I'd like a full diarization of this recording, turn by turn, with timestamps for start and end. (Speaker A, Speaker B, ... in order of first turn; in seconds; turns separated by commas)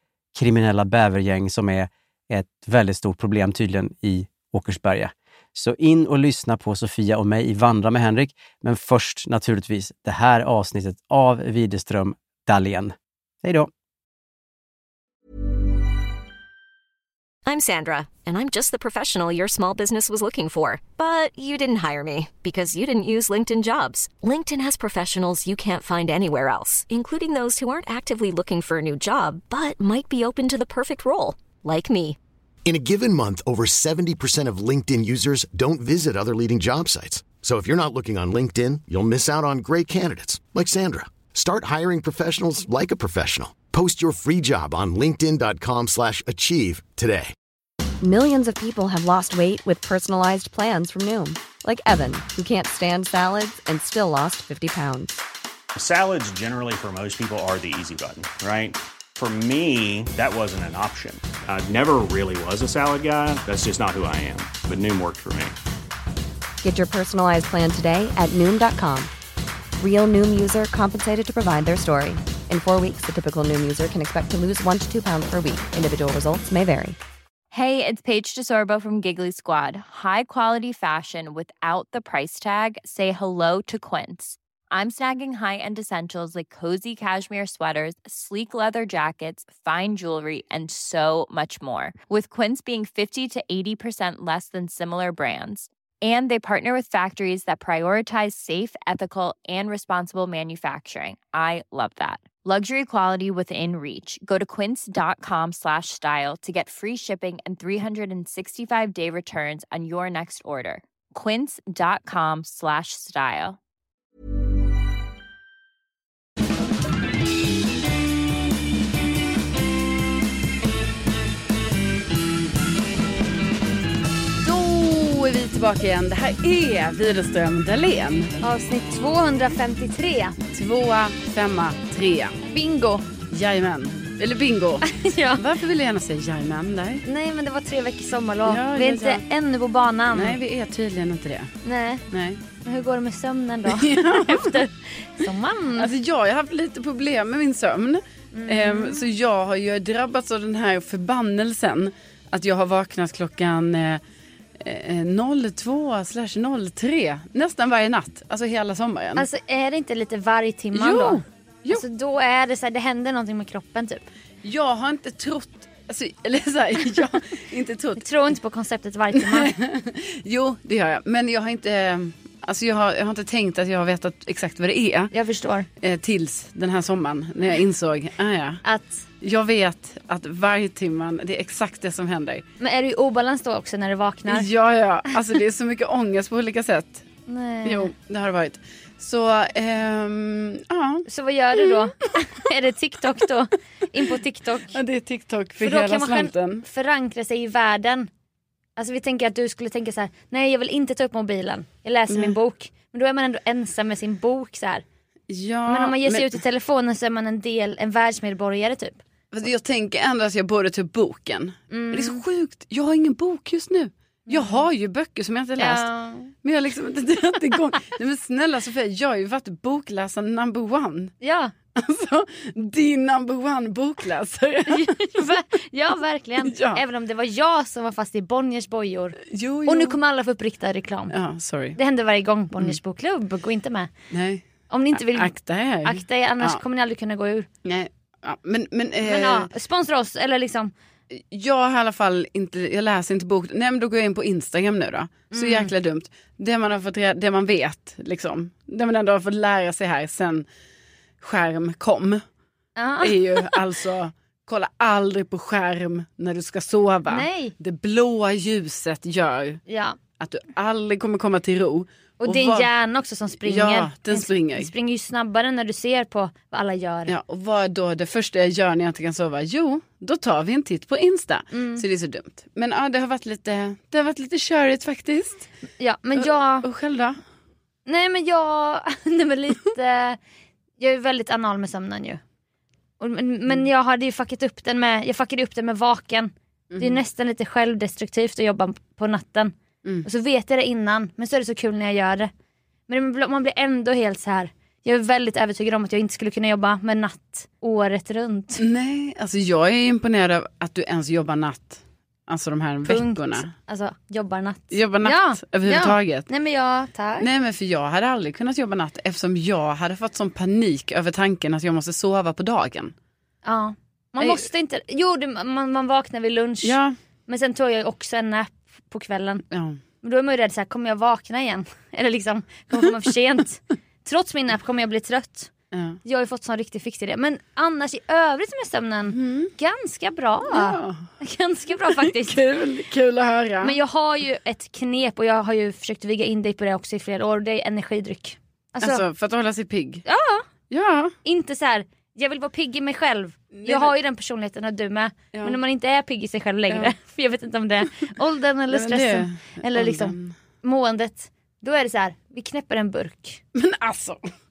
Speaker A: 0.3-13.7, Speaker B: 17.4-32.2, Speaker C: 32.6-47.3, Speaker D: 48.0-55.2, Speaker E: 55.7-65.6, Speaker D: 66.6-69.1, Speaker D: 69.8-77.0, Speaker F: 77.5-113.6, Speaker G: 124.4-128.3, Speaker H: 128.4-130.4, Speaker G: 130.5-132.4, Speaker H: 132.5-133.1, Speaker G: 133.2-137.0, Speaker H: 134.8-135.4, Speaker H: 137.1-140.4, Speaker G: 138.4-139.2, Speaker G: 140.1-141.5, Speaker H: 141.6-142.1, Speaker G: 142.1-142.5, Speaker H: 142.6-145.9, Speaker G: 143.7-144.6, Speaker G: 145.8-154.0, Speaker H: 148.3-149.1, Speaker G: 154.6-159.2, Speaker H: 159.2-164.1, Speaker G: 160.7-161.8, Speaker G: 164.4-168.0, Speaker H: 168.0-169.5, Speaker G: 169.2-175.1, Speaker H: 175.1-175.7, Speaker G: 175.8-178.6, Speaker H: 178.7-179.0, Speaker G: 179.2-182.4, Speaker H: 182.6-184.5, Speaker G: 184.3-187.1, Speaker H: 187.3-187.9, Speaker G: 187.7-191.1, Speaker H: 191.1-194.8, Speaker G: 194.7-196.7, Speaker H: 195.6-198.1, Speaker H: 198.8-204.8, Speaker G: 205.3-206.3, Speaker H: 205.7-209.0, Speaker G: 209.3-215.9, Speaker H: 211.7-212.2, Speaker H: 214.3-214.7, Speaker H: 215.6-216.3, Speaker G: 216.4-221.1, Speaker H: 221.2-221.5, Speaker G: 221.7-225.2, Speaker H: 224.7-231.1, Speaker G: 226.4-226.8, Speaker G: 229.3-230.0, Speaker G: 231.1-231.8, Speaker H: 231.8-233.9, Speaker G: 234.1-236.6, Speaker H: 234.7-237.5, Speaker G: 237.6-239.5, Speaker H: 239.0-240.7, Speaker G: 241.1-250.5, Speaker H: 245.3-245.7, Speaker G: 251.2-252.2, Speaker H: 252.8-253.2, Speaker G: 253.0-259.6, Speaker H: 257.1-257.5, Speaker H: 259.7-260.0, Speaker G: 260.2-262.7, Speaker H: 262.2-267.1, Speaker G: 263.4-264.7, Speaker G: 267.1-275.4, Speaker H: 271.5-271.8, Speaker H: 275.8-276.7, Speaker G: 276.2-277.2, Speaker H: 277.9-280.2, Speaker H: 280.8-282.2, Speaker H: 283.0-292.3, Speaker G: 286.7-287.0, Speaker H: 292.9-298.6, Speaker G: 298.6-303.5, Speaker H: 302.9-307.3, Speaker G: 304.7-306.3, Speaker G: 307.2-312.9, Speaker H: 313.4-316.8, Speaker G: 316.6-316.9, Speaker H: 317.3-319.4, Speaker G: 319.5-319.8, Speaker H: 320.0-325.5, Speaker G: 325.7-326.0, Speaker H: 326.0-332.4, Speaker G: 329.1-329.5, Speaker G: 330.5-331.1, Speaker G: 332.0-333.8, Speaker H: 333.6-339.0, Speaker G: 338.8-340.0, Speaker H: 340.1-340.4, Speaker G: 340.7-341.1, Speaker H: 341.2-353.4, Speaker G: 343.5-343.9, Speaker G: 345.3-345.6, Speaker G: 348.7-350.3, Speaker G: 353.5-354.2